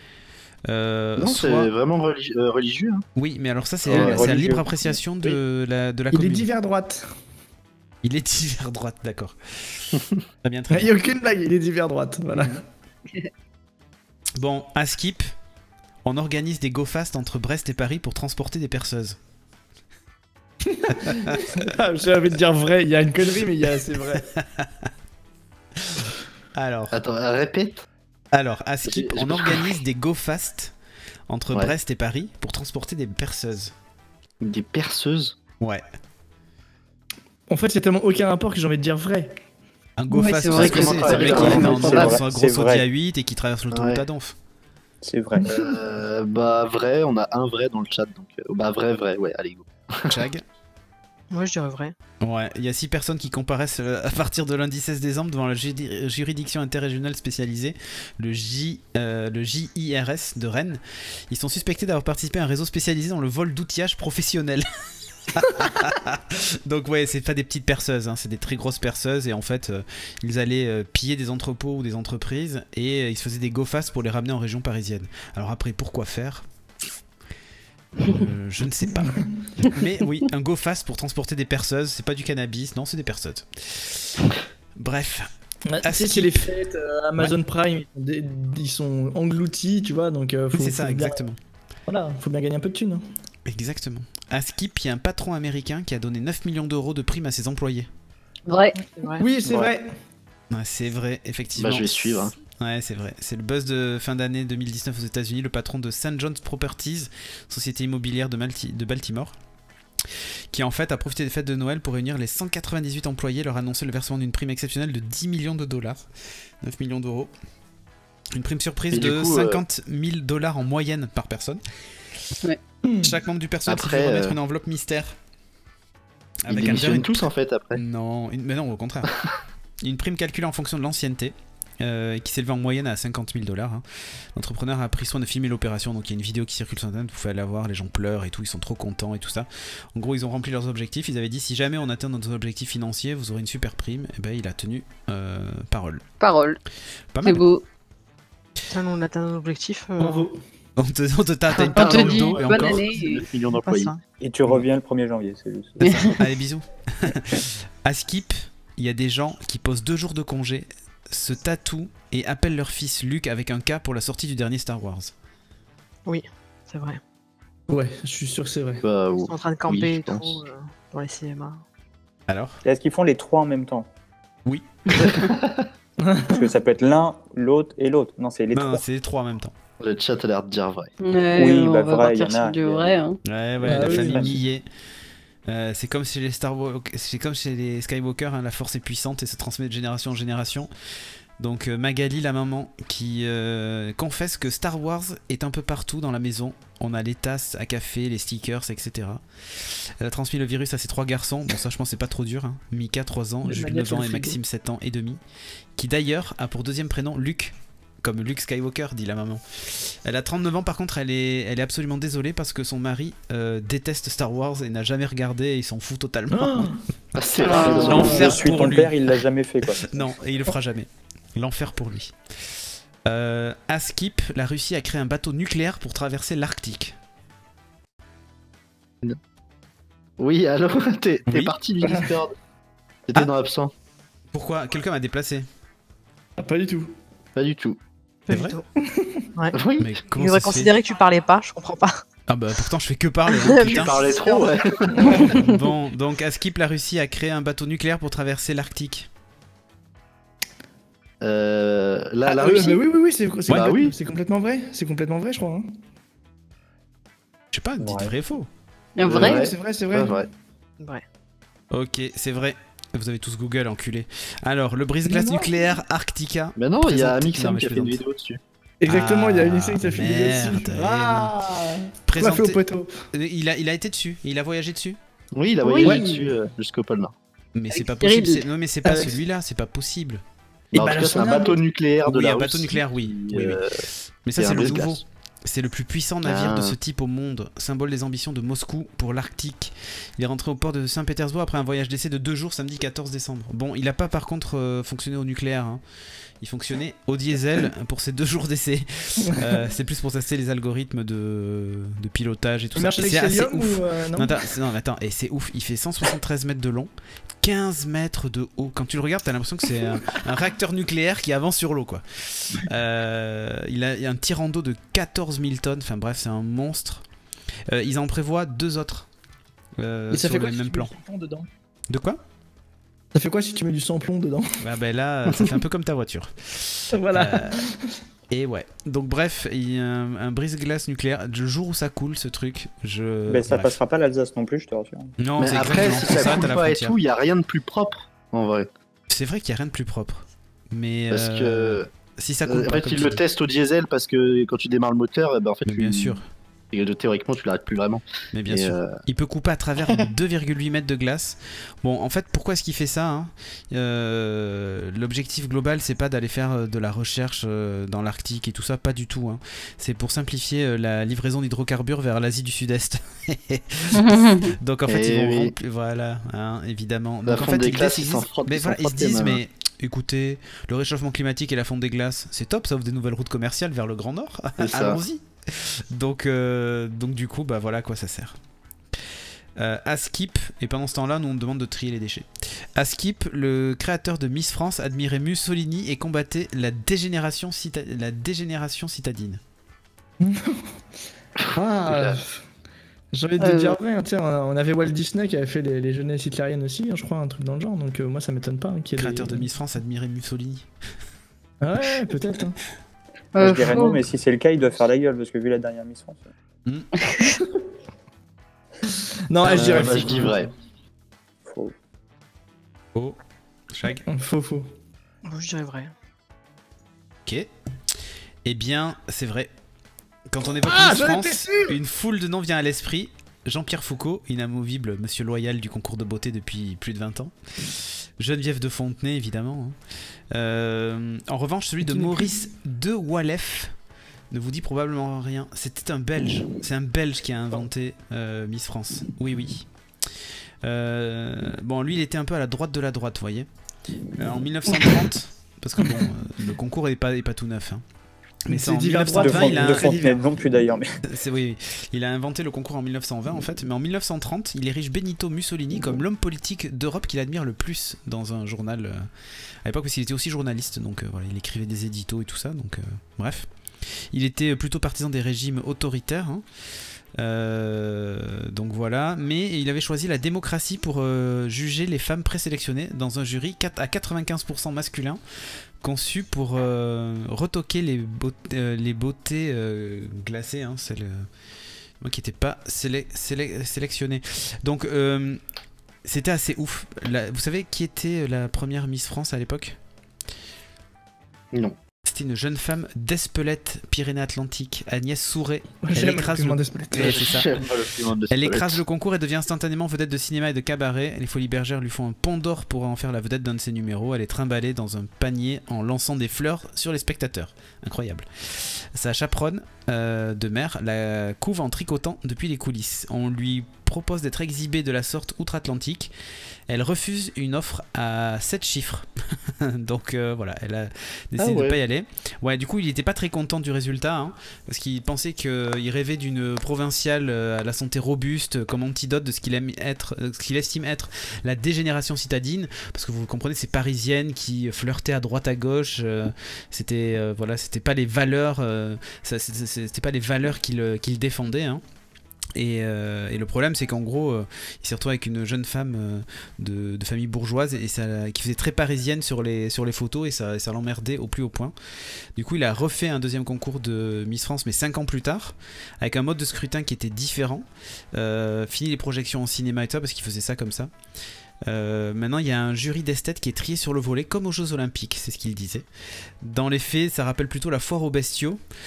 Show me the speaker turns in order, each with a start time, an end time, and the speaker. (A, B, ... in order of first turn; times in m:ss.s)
0:00.7-0:01.7 A
0:01.2-0:03.0 B
0:03.2-0:06.5 A
0:03.8-0:05.0 C
0:03.9-0:04.3 B
0:06.1-0:07.1 D
0:08.0-0:10.9 A
0:10.7-0:12.6 D
0:14.4-0:15.3 A
0:16.0-0:19.2 A
0:20.6-0:24.3 D
0:20.9-0:21.7 A
0:24.2-0:24.9 A
0:25.8-0:27.0 A
0:26.9-0:27.8 B
0:28.3-0:30.7 A
0:28.8-0:29.8 B
0:31.3-0:33.7 A
0:34.4-0:35.3 B
0:37.5-0:39.4 D
0:40.0-0:44.4 A
0:40.1-0:42.1 E
0:40.5-0:42.1 B
0:41.3-0:42.8 C
0:43.7-0:44.0 B
0:45.0-0:45.5 C
0:45.4-0:45.7 D
0:45.4-0:50.2 B
0:50.1-0:50.4 A
0:51.3-0:51.9 F
0:52.2-1:04.7 A
1:05.3-1:16.4 A
1:18.0-1:25.3 A
1:25.7-1:31.2 D
1:25.8-1:26.5 A
1:30.5-1:31.4 A
1:31.9-1:33.0 D
1:33.4-1:37.9 A
1:38.4-1:38.9 E
1:39.2-1:39.9 D
1:40.5-1:49.3 A
1:41.6-1:42.3 B
1:50.5-1:56.0 A
1:56.6-1:57.3 A
1:58.3-2:01.6 A
1:58.9-1:59.6 B
2:02.8-2:03.2 D
2:03.0-2:05.2 A
2:03.7-2:04.4 B
2:06.4-2:07.2 A
2:06.5-2:07.8 B
2:07.7-2:09.1 A
2:09.8-2:13.8 A
2:14.3-2:26.0 A
2:26.2-2:26.6 E
2:27.1-2:27.4 A
2:27.2-2:27.6 E
2:28.7-2:30.3 F
2:30.0-2:30.4 D
2:30.8-2:32.8 A
2:31.6-2:33.2 E
2:31.8-2:34.0 B
2:33.6-2:33.9 F
2:34.2-2:36.1 C
2:35.8-2:45.1 A
2:35.8-2:36.1 E
2:46.0-2:47.0 F
2:47.7-2:48.8 D
2:48.8-2:50.4 B
2:49.2-2:51.6 F
2:52.3-2:52.6 A
2:52.6-2:53.9 C
2:54.4-2:55.2 A
2:54.9-2:55.7 B
2:56.0-2:56.4 D
2:56.3-2:58.8 C
2:58.5-2:59.5 A
2:59.8-3:00.9 B
3:01.0-3:03.2 E
3:01.3-3:03.0 C
3:03.2-3:04.6 A
3:03.6-3:04.4 D
3:03.7-3:04.3 C
3:05.5-3:10.7 A
3:11.4-3:25.2 A
3:23.4-3:24.4 D
3:25.8-3:36.7 A
3:36.3-3:36.8 D
3:37.1-3:38.4 B
3:37.4-3:38.0 E
3:37.5-3:39.0 A
3:37.5-3:38.4 D
3:38.0-3:40.1 C
3:39.7-3:42.1 A
3:43.0-3:47.0 A
3:50.2-3:52.3 B
3:51.3-3:51.5 A
3:53.1-3:53.7 B
3:54.3-3:55.4 A
3:56.4-3:56.9 D
3:57.4-3:57.8 B
3:58.3-3:58.6 A
3:58.3-3:58.6 F
3:58.8-3:59.3 D
3:59.5-3:59.9 B
3:59.8-4:00.7 A
4:00.1-4:02.0 F
4:02.3-4:04.0 A
4:03.3-4:05.3 F
4:03.6-4:05.3 B
4:04.9-4:05.4 D
4:05.2-4:09.1 A
4:11.2-4:12.8 B
4:12.2-4:15.7 D
4:13.5-4:13.9 B
4:17.5-4:18.5 A
4:17.8-4:18.1 C
4:19.0-4:19.5 E
4:19.0-4:20.3 B
4:19.1-4:20.2 D
4:21.7-4:28.0 A
4:25.0-4:25.6 D
4:26.6-4:28.4 B
4:28.8-4:33.0 D
4:28.9-4:31.4 A
4:32.0-4:35.0 A
4:35.3-4:37.1 B
4:35.6-4:36.0 E
4:35.8-4:36.3 D
4:37.5-4:40.2 A
4:37.7-4:38.4 E
4:38.8-4:39.2 D
4:40.7-4:41.6 D
4:40.7-4:43.8 B
4:42.0-4:43.6 A
4:44.2-4:55.8 A
4:44.4-4:45.0 B
4:46.2-4:46.8 B
4:56.4-5:06.9 A
4:59.2-4:59.6 D
5:02.7-5:04.5 D
5:07.4-5:17.0 A
5:17.7-5:19.1 A
5:19.8-5:20.9 A
5:20.1-5:21.5 D
5:21.9-5:22.2 A
5:23.1-5:24.6 D
5:24.6-5:27.6 A
5:26.9-5:28.0 D
5:28.3-5:33.8 A
5:33.3-5:35.1 C
5:35.2-5:36.9 A
5:35.4-5:38.7 B
5:39.1-5:43.2 A
5:41.1-5:41.9 B
5:42.4-5:46.2 B
5:45.6-5:46.2 A
5:46.7-5:49.0 B
5:48.3-6:18.4 A
6:03.9-6:04.5 E
6:04.9-6:05.5 B
6:07.2-6:09.4 B
6:14.6-6:15.0 B
6:19.6-6:29.4 A
6:30.2-6:30.7 D
6:31.4-6:32.2 B
6:31.5-6:32.4 D
6:33.1-6:39.5 D
6:33.4-6:33.8 E
6:39.0-6:40.7 A
6:41.6-6:42.6 D
6:43.3-6:44.0 E
6:43.4-6:46.2 C
6:46.6-6:46.9 A
6:48.9-6:50.4 D
6:49.4-6:50.5 B
6:49.4-6:50.2 A
6:51.4-6:51.7 C
6:53.7-6:54.0 A
6:54.0-6:54.7 D
6:55.2-6:55.9 F
6:58.4-6:59.5 A
7:00.3-7:09.8 A
7:00.6-7:01.8 D
7:10.3-7:13.7 A
7:11.9-7:12.3 D
7:14.3-7:19.7 A
7:20.6-7:23.5 A
7:24.2-7:27.8 A
7:28.5-7:30.2 A
7:28.5-7:30.0 D
7:29.2-7:30.9 C
7:31.0-7:39.1 A
7:39.6-7:46.4 A
7:47.2-7:55.2 A
7:55.8-8:01.3 A
8:02.0-8:05.4 A
8:06.0-8:09.8 A
8:12.0-8:17.6 A
8:15.8-8:17.3 D
8:16.9-8:18.8 B
8:18.3-8:36.1 A
8:36.7-9:01.8 A
8:41.4-8:41.8 B
9:02.5-9:11.7 A
9:12.4-9:20.9 A
9:21.6-9:25.8 A
9:26.4-9:28.6 A